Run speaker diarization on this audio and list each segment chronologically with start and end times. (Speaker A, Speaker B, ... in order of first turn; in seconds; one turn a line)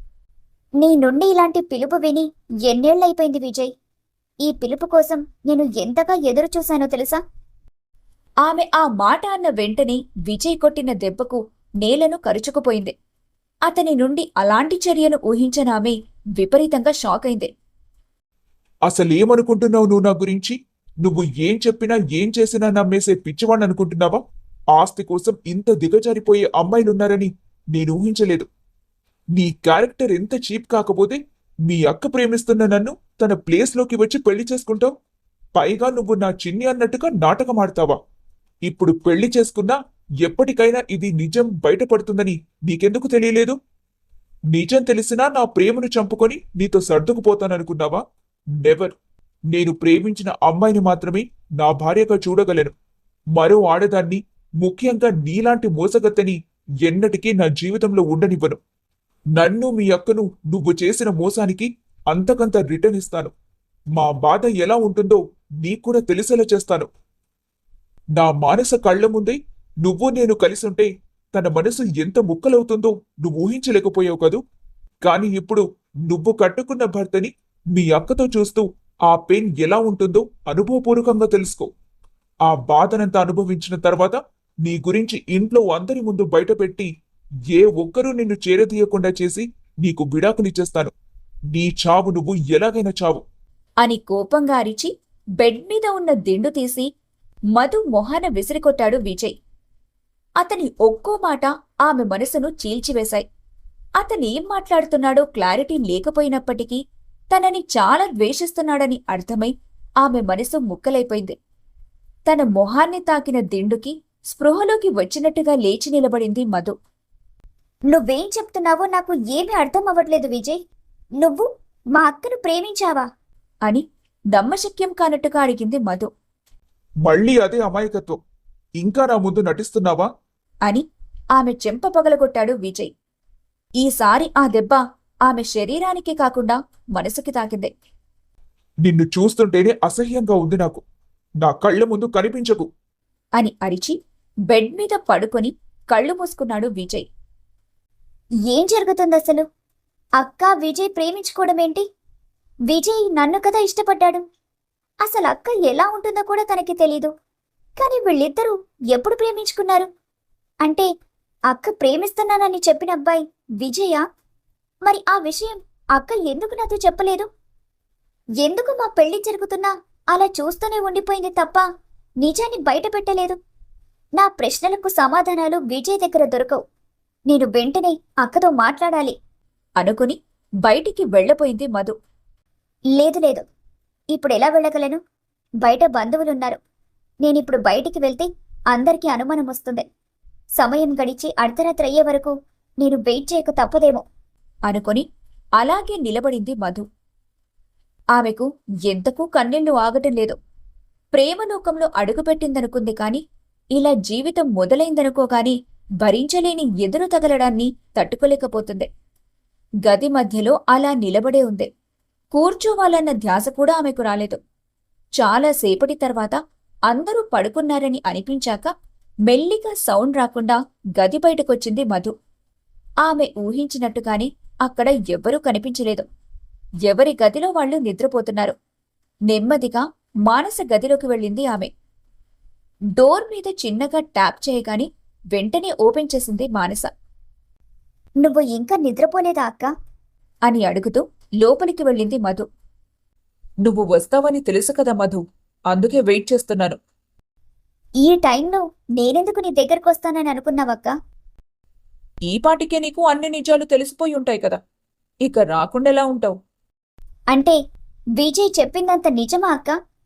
Speaker A: 0.8-3.7
Speaker A: 4.4-7.2
Speaker B: 8.4-12.9
Speaker B: 13.7-17.5
Speaker C: 18.9-24.2
Speaker C: 24.7-28.5
Speaker C: 29.4-34.9
Speaker C: 35.5-38.0
Speaker C: 38.6-43.6
Speaker C: 44.5-48.0
Speaker C: 48.6-48.9
Speaker C: 49.5-52.7
Speaker C: 53.3-58.6
Speaker C: 59.4-63.3
Speaker C: 63.9-66.9
Speaker C: 68.2-74.4
Speaker C: 75.0-81.7
Speaker C: 82.5-86.9
Speaker C: 87.5-90.9
Speaker C: 91.5-93.2
Speaker B: 93.8-96.9
Speaker B: 97.5-99.3
Speaker B: 100.4-103.2
Speaker B: 104.0-111.3
Speaker B: 112.3-116.7
Speaker A: 117.9-120.6
Speaker A: 121.2-123.1
Speaker B: 123.7-126.1
Speaker C: 127.0-128.2
Speaker C: 128.8-130.1
Speaker B: 130.7-132.9
Speaker B: 133.8-137.7
Speaker C: 138.8-140.8
Speaker C: 141.4-142.7
Speaker B: 143.4-144.0
Speaker B: 144.5-147.1
Speaker A: 148.5-149.4
Speaker A: 150.2-151.8
Speaker A: 152.7-154.2
Speaker A: 155.0-157.1
Speaker A: 157.8-159.9
Speaker A: 161.5-164.0
Speaker A: 164.8-167.3
Speaker A: 168.4-171.7
Speaker A: 172.2-173.4
Speaker A: 174.2-176.6
Speaker A: 177.3-179.2
Speaker B: 179.8-181.9
Speaker A: 182.9-183.4
Speaker A: 184.1-185.0
Speaker A: 185.6-186.6
Speaker A: 187.2-189.9
Speaker A: 190.6-194.0
Speaker B: 194.7-195.1
Speaker B: 195.6-196.8
Speaker B: 198.1-200.4
Speaker B: 201.1-203.2
Speaker B: 203.7-208.9
Speaker B: 209.8-211.7
Speaker B: 212.3-214.4
Speaker B: 215.2-216.4
Speaker B: 216.9-218.7
Speaker B: 219.3-222.1
Speaker B: 223.0-226.1
Speaker B: 226.8-228.5
Speaker B: 229.3-231.7
Speaker B: 233.0-236.9
Speaker A: 238.2-239.7
Speaker B: 240.4-242.4
Speaker D: 243.6-246.8
Speaker A: 248.0-250.9
Speaker D: 252.3-254.6
Speaker D: 255.2-256.4
Speaker A: 258.2-259.8